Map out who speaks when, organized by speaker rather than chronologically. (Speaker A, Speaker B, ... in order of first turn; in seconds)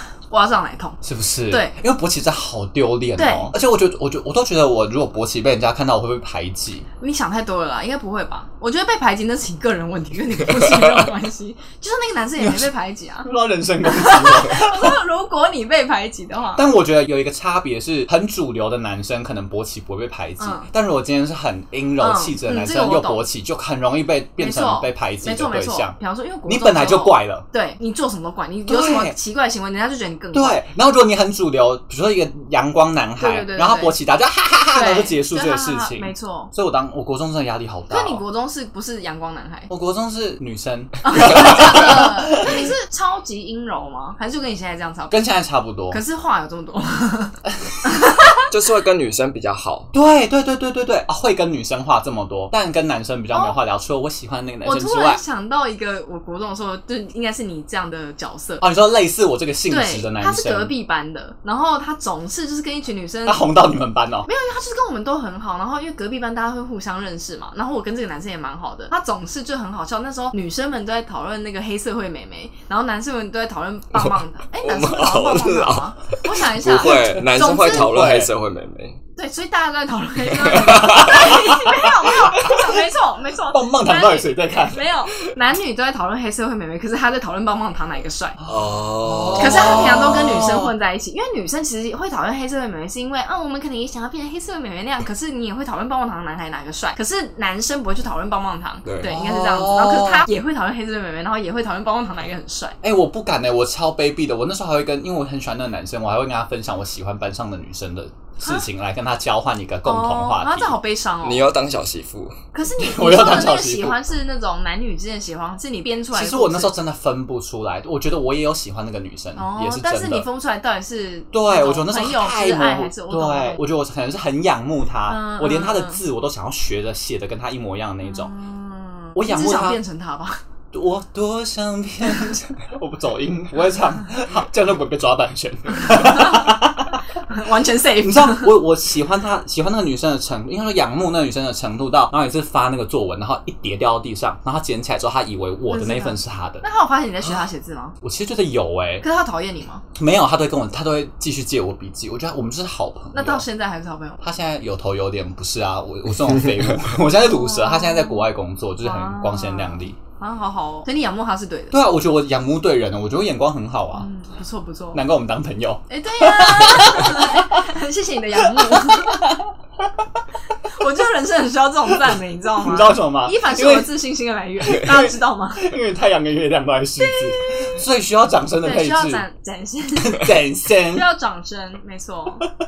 Speaker A: 0.3-1.0, 3.2-3.5, 7.0-13.3, 13.8-16.6, 20.4-20.7, 22.0-23.3, 24.4-30.6, 33.2-33.9, 34.7-36.5, 37.9-39.7, 41.0-45.2, 45.9-48.5, 53.3-53.6, 54.6-58.6, 59.7-63.4, 64.3-77.9, 79.2-88.4, 89.4-102.8, 108.4-108.7, 109.8-111.5, 112.5-116.7, 119.4-123.6, 125.1-126.0, 128.0-130.4, 135.8-136.6, 137.2-138.5, 145.7-147.9, 149.0-149.8, 153.1-154.2, 157.2-158.3, 158.8-161.8, 163.9-165.0, 165.9-169.4, 170.6-175.7, 177.0-177.8, 178.6-182.5
Speaker B: 1.0-6.9, 12.4-12.7, 13.2-15.0, 16.6-27.4, 28.7-29.2, 30.3-38.2, 39.7-42.7, 45.1-46.0, 49.9-55.2, 58.6-60.7, 63.3-64.3, 76.8-78.3, 80.6-82.6, 83.5-84.9, 88.4-90.7, 99.0-100.3, 102.8-110.8, 112.8-114.0, 116.1-120.3, 121.3-128.3, 129.1-129.8, 130.7-137.0, 138.0-146.6, 148.0-149.1, 149.9-153.4, 154.2-159.9, 161.7-164.1, 164.9-167.6, 168.4-169.9, 172.6-173.9, 174.6-179.2, 179.9-181.1
Speaker C: 48.5-49.9, 74.6-79.0, 80.5-81.1, 88.5-90.0, 98.8-99.1, 111.2-112.4